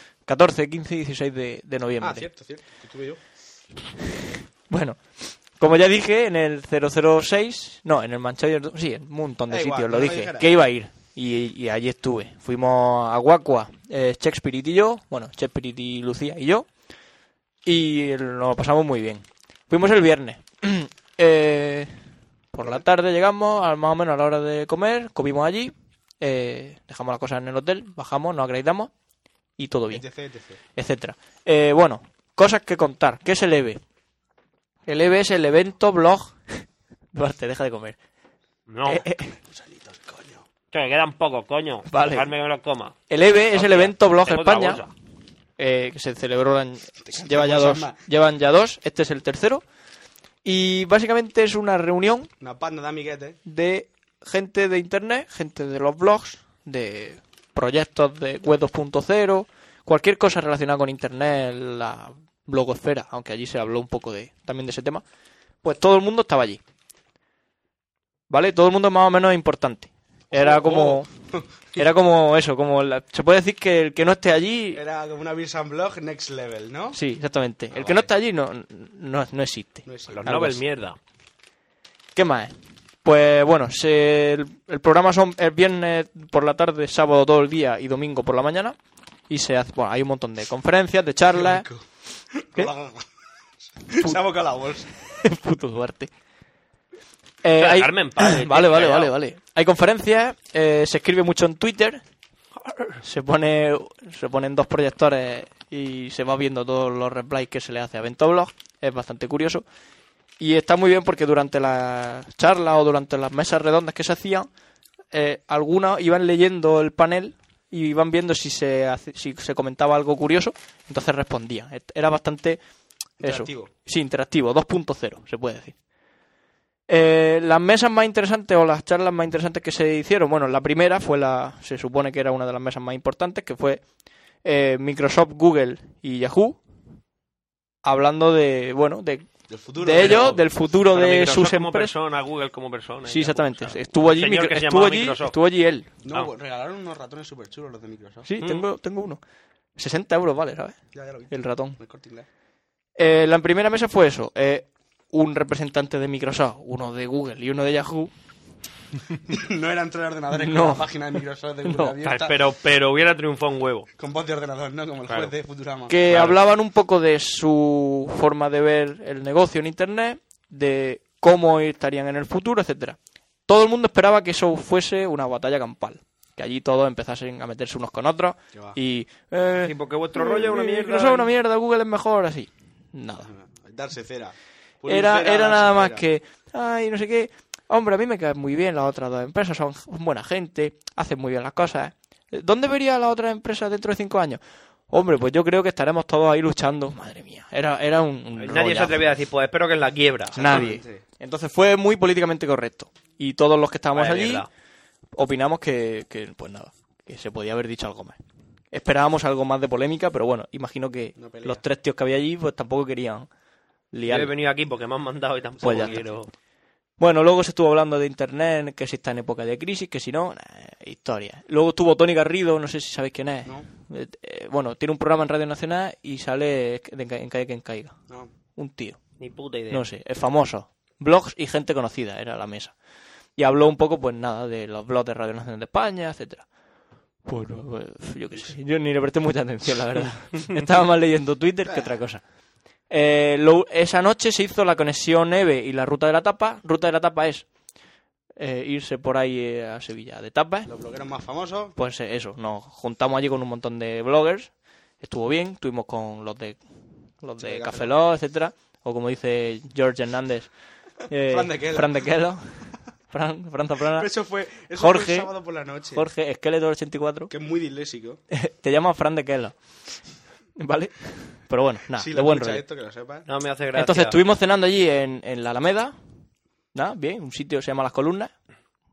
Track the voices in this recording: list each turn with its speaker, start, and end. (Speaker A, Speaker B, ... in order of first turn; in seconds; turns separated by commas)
Speaker A: 0.3-2.3, Speaker B: 2.0-3.2, Speaker A: 4.2-16.7, Speaker B: 9.5-10.5, Speaker A: 17.6-21.9, Speaker A: 22.5-28.9, Speaker A: 29.6-30.1, Speaker B: 29.9-30.6, Speaker A: 30.8-33.8, Speaker A: 34.9-38.0, Speaker C: 38.7-39.0, Speaker A: 38.9-39.4, Speaker B: 39.5-40.5, Speaker C: 40.7-43.0, Speaker A: 41.9-42.3, Speaker A: 43.1-44.8, Speaker C: 43.5-44.9, Speaker A: 45.6-49.6, Speaker B: 47.0-48.0, Speaker A: 50.4-52.3, Speaker B: 52.4-53.4, Speaker A: 53.5-65.0, Speaker A: 65.6-66.6, Speaker A: 68.3-71.1, Speaker B: 70.3-71.8, Speaker A: 71.8-74.8, Speaker B: 74.7-77.0, Speaker A: 76.9-80.6, Speaker B: 79.9-80.3, Speaker C: 80.1-81.0, Speaker A: 82.2-88.8, Speaker A: 89.3-91.7, Speaker B: 91.3-91.8, Speaker B: 92.3-93.0, Speaker B: 93.9-94.9, Speaker A: 95.2-96.1, Speaker A: 97.4-102.0, Speaker C: 97.5-99.1, Speaker C: 102.7-102.9, Speaker A: 103.0-109.7, Speaker A: 110.4-114.5, Speaker A: 115.1-122.6, Speaker B: 123.2-123.7, Speaker A: 123.2-125.8, Speaker A: 126.9-133.8, Speaker A: 134.4-136.6, Speaker A: 137.8-141.9, Speaker B: 139.5-140.5, Speaker C: 140.0-145.3, Speaker A: 143.1-145.9, Speaker B: 146.0-148.3, Speaker A: 148.2-149.2, Speaker A: 149.8-150.8, Speaker B: 150.9-152.3, Speaker A: 151.3-151.8, Speaker A: 153.0-158.1, Speaker B: 159.3-162.4, Speaker A: 160.3-160.8, Speaker A: 161.7-162.0, Speaker C: 162.0-163.9, Speaker B: 164.0-166.1, Speaker A: 165.9-183.3, Speaker C: 166.1-166.3, Speaker C: 179.6-181.3, Speaker B: 183.2-186.0, Speaker A: 184.9-199.0, Speaker C: 198.4-200.7, Speaker B: 200.3-201.0, Speaker A: 200.3-204.5, Speaker C: 203.9-204.5, Speaker A: 205.2-208.2, Speaker A: 208.7-213.3, Speaker B: 211.2-211.6, Speaker A: 213.9-214.3, Speaker C: 214.1-216.3, Speaker A: 215.6-216.1, Speaker A: 217.0-228.0, Speaker A: 228.6-229.0, Speaker C: 229.2-229.8, Speaker A: 229.7-232.7, Speaker A: 233.4-236.5, Speaker A: 237.3-242.2, Speaker B: 241.7-241.9, Speaker A: 242.9-247.5, Speaker A: 248.4-250.7, Speaker B: 250.7-251.8, Speaker A: 251.8-256.6, Speaker A: 257.2-260.5, Speaker B: 257.4-258.0, Speaker A: 261.1-264.1, Speaker B: 261.3-262.1, Speaker B: 264.0-266.1, Speaker A: 264.7-265.3, Speaker A: 265.9-267.3, Speaker B: 267.3-268.2, Speaker A: 268.3-269.6, Speaker A: 270.6-272.6, Speaker B: 271.9-273.3, Speaker C: 273.3-274.2, Speaker A: 273.8-275.9, Speaker A: 276.7-278.3